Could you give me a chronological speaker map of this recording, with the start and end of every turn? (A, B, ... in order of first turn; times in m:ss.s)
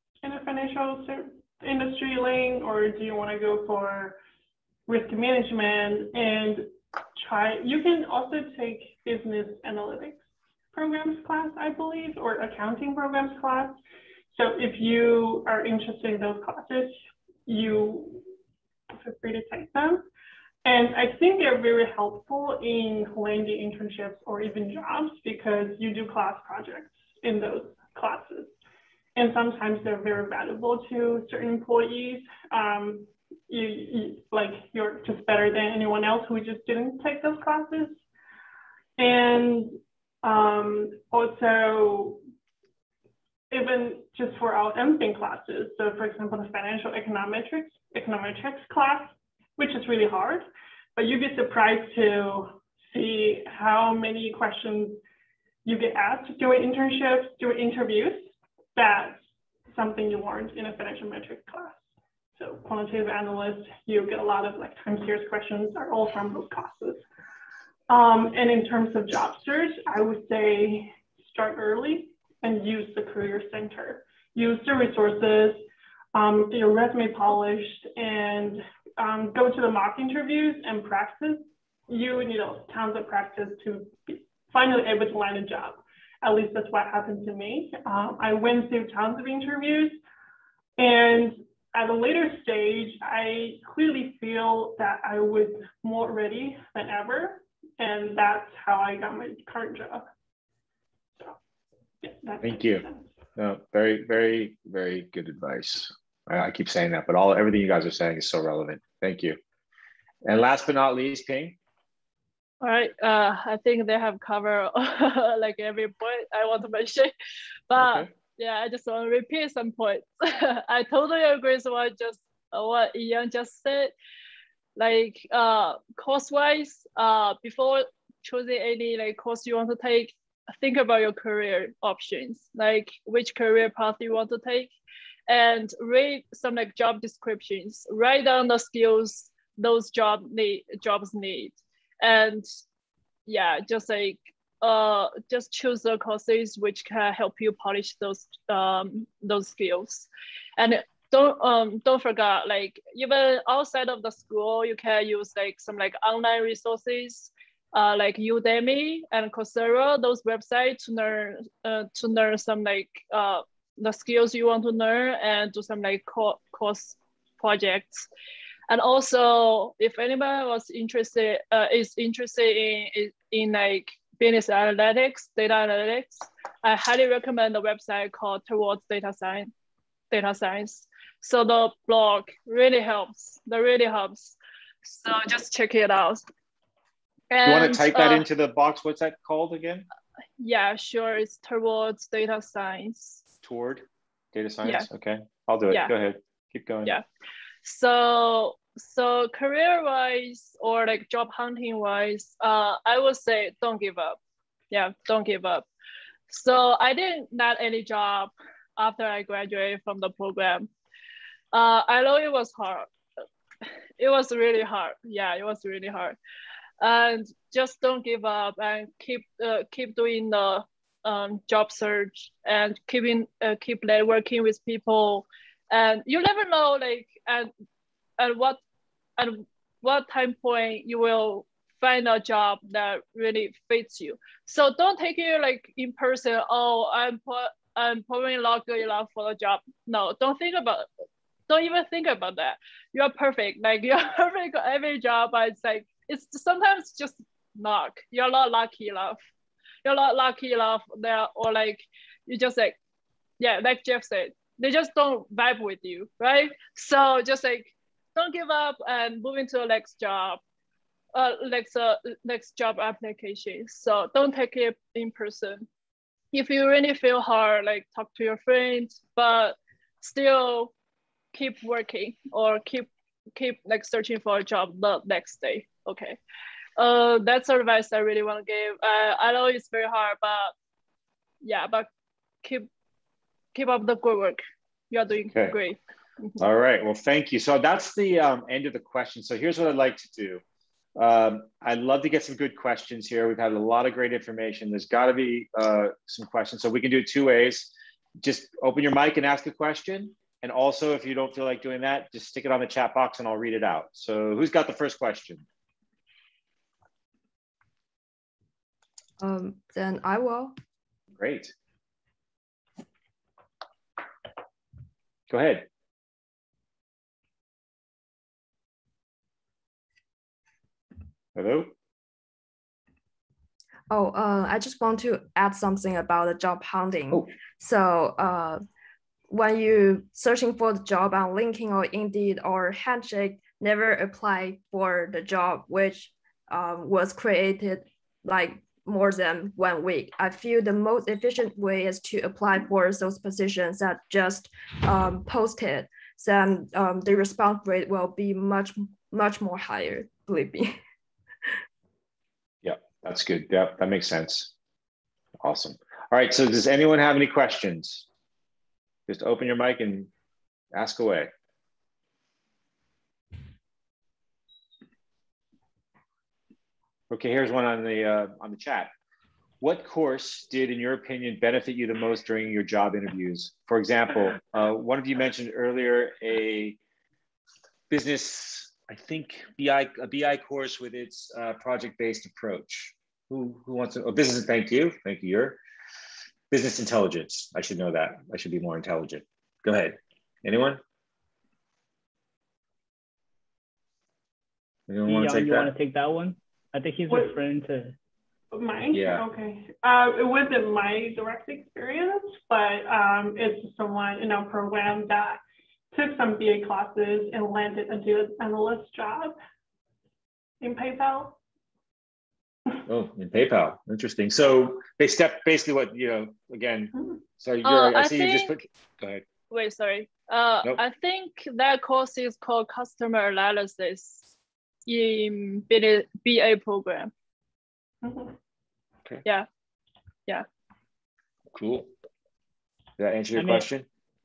0:00.2-0:04.2 A
0:04.9-0:10.2 A
0:10.7-0:13.8 A
0:14.3-0:16.9 A
0:17.4-0:18.3 A
0:19.0-0:20.0 A
0:20.6-0:28.5 A
0:29.1-0:38.0 A
0:39.0-0:42.2 A
0:43.5-0:55.0 A
0:55.6-0:59.2 A
0:59.7-1:01.8 A
1:02.4-1:07.0 A
1:07.9-1:30.0 A
1:30.8-1:40.0 A
1:42.0-1:43.1 A
1:42.4-1:42.8 B
1:43.4-1:49.4 B
1:50.2-1:51.6 B
1:52.6-1:57.1 C
1:57.7-2:03.9 C
1:57.8-1:58.1 B
2:04.8-2:14.7 C
2:15.3-2:22.4 C
2:23.3-2:48.0 C
2:48.7-2:59.5 C
3:00.1-3:06.2 C
3:07.3-3:08.3 C
3:07.4-3:09.8 B
3:10.4-3:13.2 C
3:13.4-3:16.9 B
3:17.6-3:24.2 C
3:24.7-3:25.6 C
3:26.3-3:30.7 C
3:31.5-3:32.9 C
3:34.0-3:36.2 C
3:36.8-3:47.5 C
3:48.2-3:48.6 C
3:49.2-4:00.9 C
4:01.5-4:09.2 C
4:09.8-4:12.8 C
4:13.4-4:20.4 C
4:21.1-4:25.7 C
4:26.3-4:30.7 C
4:31.3-4:36.2 C
4:36.8-4:40.5 C
4:41.4-4:41.9 C
4:43.5-4:46.4 C
4:46.4-4:50.4 B
4:51.0-4:57.7 B
4:58.2-5:05.4 B
5:09.2-5:10.5 D
5:11.1-5:11.5 B
5:15.3-5:15.7 B
5:21.3-5:21.7 B
5:23.9-5:28.6 D
5:29.3-5:50.8 D
5:52.6-5:54.5 B
5:55.4-5:58.0 B
5:59.1-6:00.1 B
6:00.7-6:01.3 B
6:07.1-6:08.9 B
6:09.6-6:16.8 B
6:17.9-6:25.6 B
6:26.5-6:30.8 B
6:34.9-6:35.7 B
6:35.1-6:37.9 E
6:37.1-6:37.4 A
6:38.5-6:45.4 A
6:38.9-6:39.2 B
6:45.9-6:49.4 A
6:50.6-6:51.4 A
6:52.8-6:59.2 B
6:56.9-6:57.2 A
6:57.6-6:58.6 C
6:59.5-7:04.2 C
7:04.8-7:07.1 C
7:08.0-7:08.3 A
7:11.5-7:11.9 B
7:13.0-7:13.8 B
7:13.4-7:13.6 E